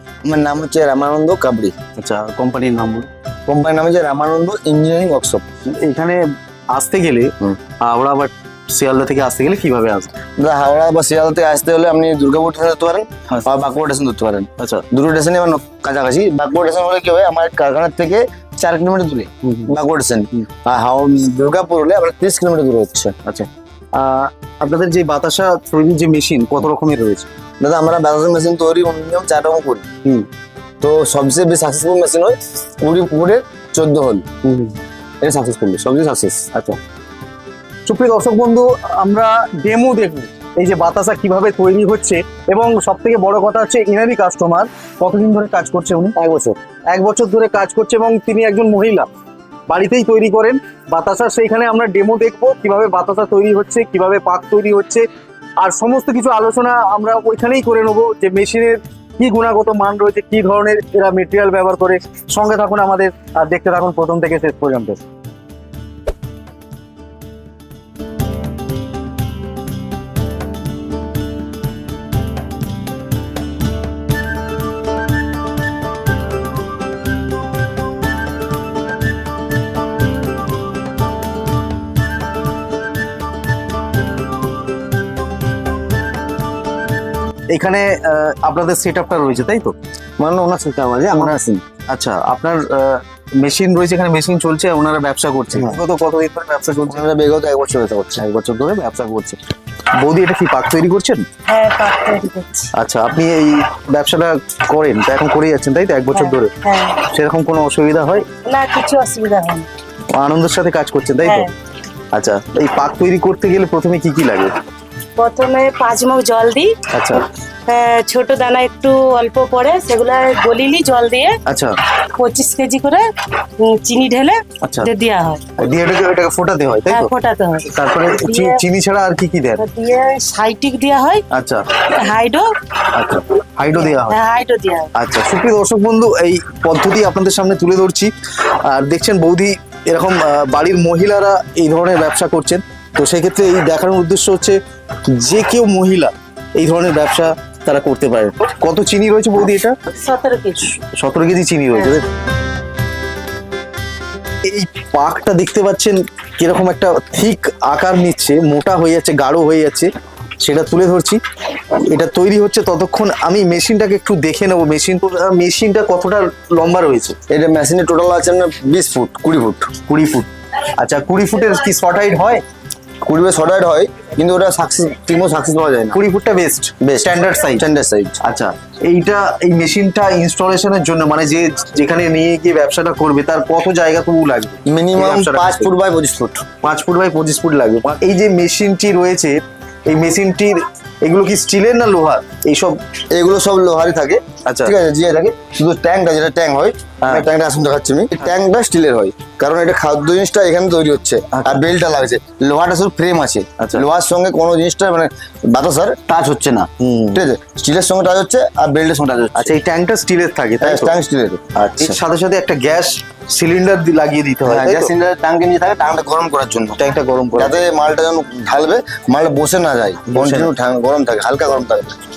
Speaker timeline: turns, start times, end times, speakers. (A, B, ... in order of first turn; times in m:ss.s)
0:00.2-0:01.7 A
0:02.0-0:03.1 B
0:03.5-0:05.4 A
0:05.7-0:10.1 B
0:10.4-0:23.1 A
0:14.6-0:14.8 B
0:19.4-0:19.7 B
0:23.2-0:27.3 B
0:27.6-0:29.8 A
0:30.8-0:34.2 A
0:34.4-0:34.7 B
0:35.2-0:36.4 A
0:36.5-0:36.8 B
0:37.8-0:46.1 B
0:46.2-0:46.6 A
0:46.9-0:49.1 B
0:49.7-0:55.0 B
0:55.6-1:05.0 B
1:27.5-1:29.7 B
1:30.2-1:31.6 A
1:31.9-1:37.0 B
1:36.8-1:39.4 A
1:39.9-1:41.2 B
1:41.5-1:42.7 C
1:42.7-1:48.3 B
1:46.1-1:47.0 C
1:48.4-1:49.7 C
1:50.1-1:51.5 B
1:51.2-1:51.5 C
1:52.1-1:54.5 B
1:55.2-1:56.7 C
1:56.9-1:57.2 B
1:57.7-2:01.4 C
2:01.4-2:01.8 B
2:02.1-2:05.4 C
2:04.6-2:04.9 B
2:05.6-2:07.1 B
2:06.9-2:08.6 C
2:07.7-2:09.6 B
2:09.6-2:11.2 C
2:11.3-2:11.7 B
2:11.9-2:12.5 C
2:12.9-2:14.2 B
2:13.9-2:14.9 C
2:14.9-2:29.8 B
2:29.9-2:30.7 C
2:30.8-2:32.0 B
2:34.4-2:47.2 B
2:47.3-2:49.7 A
2:49.9-2:52.4 B
2:53.0-2:56.0 A
2:55.9-2:57.6 B
2:56.8-2:58.2 A
2:58.2-3:05.7 B
3:04.6-3:06.4 A
3:06.6-3:12.8 B
3:13.1-3:29.6 A
3:14.4-3:14.7 B
3:21.3-3:21.6 B
3:23.6-3:23.8 B
3:26.8-3:27.2 B
3:29.3-3:30.9 B
3:30.6-3:32.0 A
3:31.6-3:34.9 B
3:34.4-3:36.8 A
3:36.8-3:37.6 B
3:37.3-3:42.0 A
3:40.1-3:40.5 B